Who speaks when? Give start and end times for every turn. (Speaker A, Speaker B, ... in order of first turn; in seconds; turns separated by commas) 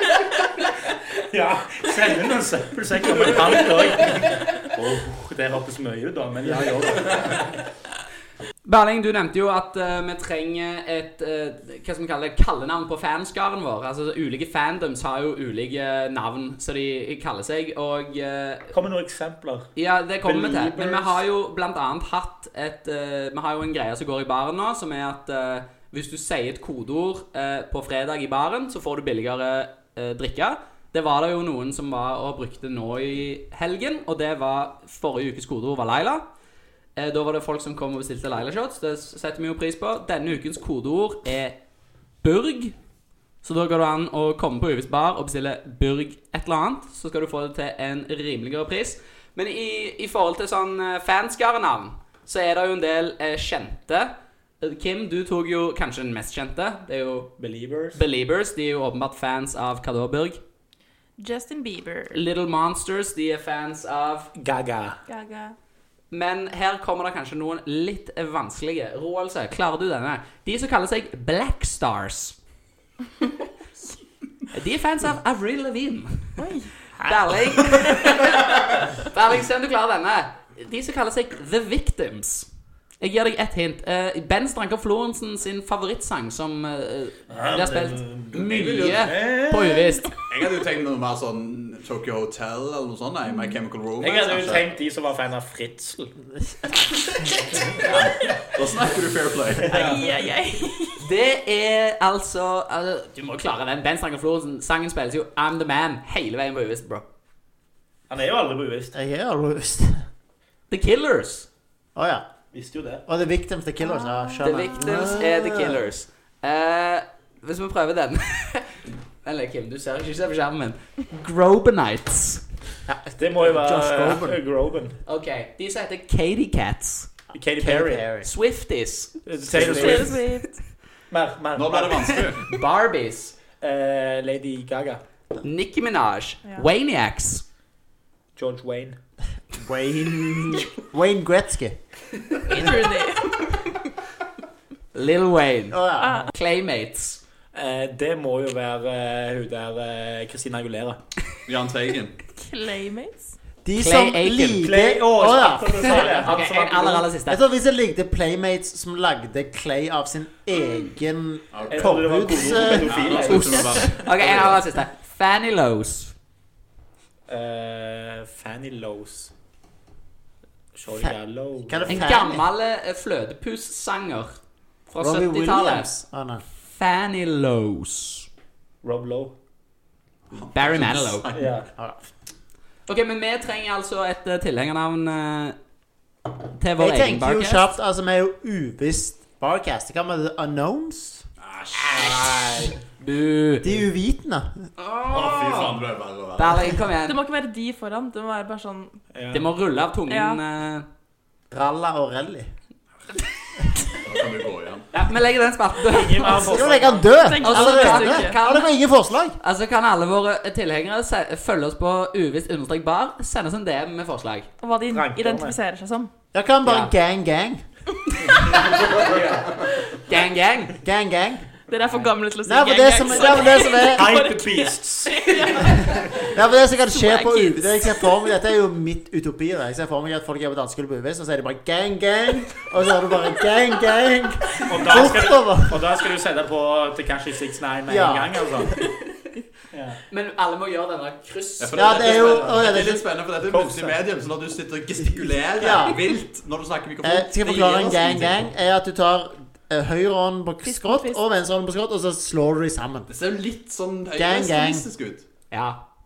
Speaker A: 1.2-7.5, Speaker B: 8.6-18.7, Speaker A: 18.7-19.7, Speaker B: 19.8-36.2, Speaker A: 20.2-21.2, Speaker B: 37.0-41.6, Speaker B: 42.2-42.7, Speaker B: 43.4-57.3, Speaker A: 57.4-58.0, Speaker B: 57.9-60.4, Speaker C: 61.2-62.2, Speaker B: 62.1-64.3, Speaker A: 64.3-65.0, Speaker C: 65.1-65.5, Speaker B: 66.1-72.4, Speaker B: 74.5-76.5, Speaker C: 76.4-76.7, Speaker B: 77.0-82.5, Speaker B: 83.0-90.1, Speaker A: 87.3-89.9, Speaker D: 88.3-89.1, Speaker D: 90.2-94.7, Speaker A: 94.0-96.1, Speaker D: 97.8-100.0, Speaker A: 99.6-100.0, Speaker C: 99.7-101.0, Speaker B: 101.0-107.0, Speaker A: 108.1-108.9, Speaker E: 108.9-110.0, Speaker B: 110.7-111.5, Speaker E: 112.0-112.2, Speaker A: 112.5-113.0, Speaker E: 113.0-115.8, Speaker C: 114.0-114.3, Speaker B: 114.4-122.4, Speaker E: 122.9-124.4, Speaker A: 123.2-125.0, Speaker B: 125.0-127.1, Speaker A: 127.3-128.0, Speaker E: 127.5-128.3, Speaker B: 128.2-129.1, Speaker A: 129.2-130.2, Speaker E: 129.4-130.1, Speaker C: 129.6-130.5, Speaker A: 131.1-132.2, Speaker D: 131.5-132.4, Speaker B: 132.3-133.3, Speaker A: 133.6-135.0, Speaker B: 135.4-137.4, Speaker A: 138.3-139.0, Speaker E: 139.5-141.8, Speaker C: 142.5-143.3, Speaker B: 142.5-142.8, Speaker B: 144.9-145.8, Speaker E: 145.7-146.2, Speaker C: 146.0-146.3, Speaker B: 146.3-147.2, Speaker A: 147.5-151.0, Speaker D: 151.4-152.2, Speaker C: 152.4-153.3, Speaker E: 153.6-156.4, Speaker B: 153.8-154.7, Speaker A: 154.6-157.1, Speaker B: 155.8-157.4, Speaker E: 157.3-163.2, Speaker D: 161.5-164.6, Speaker A: 161.7-163.8, Speaker B: 163.2-166.1, Speaker A: 167.3-169.3, Speaker A: 170.7-172.1, Speaker E: 170.9-172.4, Speaker B: 171.9-175.9, Speaker E: 175.0-176.4, Speaker B: 176.7-178.3, Speaker A: 178.8-179.3, Speaker D: 180.3-181.6, Speaker B: 180.5-181.3, Speaker A: 181.3-181.7, Speaker B: 182.9-185.6, Speaker B: 186.6-187.7, Speaker E: 186.8-191.2, Speaker D: 191.4-192.3, Speaker A: 191.9-192.8, Speaker B: 191.9-193.8, Speaker E: 193.6-194.7, Speaker B: 194.8-195.8, Speaker D: 195.1-196.8, Speaker B: 196.4-197.2, Speaker C: 197.0-199.0, Speaker A: 199.1-199.5, Speaker B: 199.3-200.9, Speaker C: 200.1-200.4, Speaker E: 201.5-202.5, Speaker D: 203.9-204.9, Speaker B: 205.0-206.6, Speaker A: 205.8-207.1, Speaker C: 206.2-206.5, Speaker E: 206.3-209.4, Speaker C: 207.1-208.3, Speaker B: 207.4-208.7, Speaker B: 209.4-214.5, Speaker C: 214.6-216.1, Speaker A: 214.9-215.5, Speaker E: 216.3-217.6, Speaker B: 216.6-216.9, Speaker A: 218.4-219.5, Speaker B: 218.5-218.8, Speaker B: 219.9-220.8, Speaker E: 220.8-221.4, Speaker C: 221.7-226.3, Speaker E: 222.4-224.2, Speaker B: 223.1-223.4, Speaker A: 223.9-225.2, Speaker E: 225.6-235.9, Speaker C: 226.9-228.2, Speaker B: 227.0-227.5, Speaker A: 234.7-238.8, Speaker E: 237.9-238.5, Speaker A: 239.7-240.0, Speaker B: 240.1-242.5, Speaker D: 241.6-248.5, Speaker E: 241.7-243.0, Speaker A: 242.5-242.8, Speaker A: 243.5-244.0, Speaker E: 245.6-246.1, Speaker E: 247.0-253.1, Speaker C: 250.6-251.2, Speaker D: 253.1-255.2, Speaker E: 254.1-254.8, Speaker B: 255.5-255.8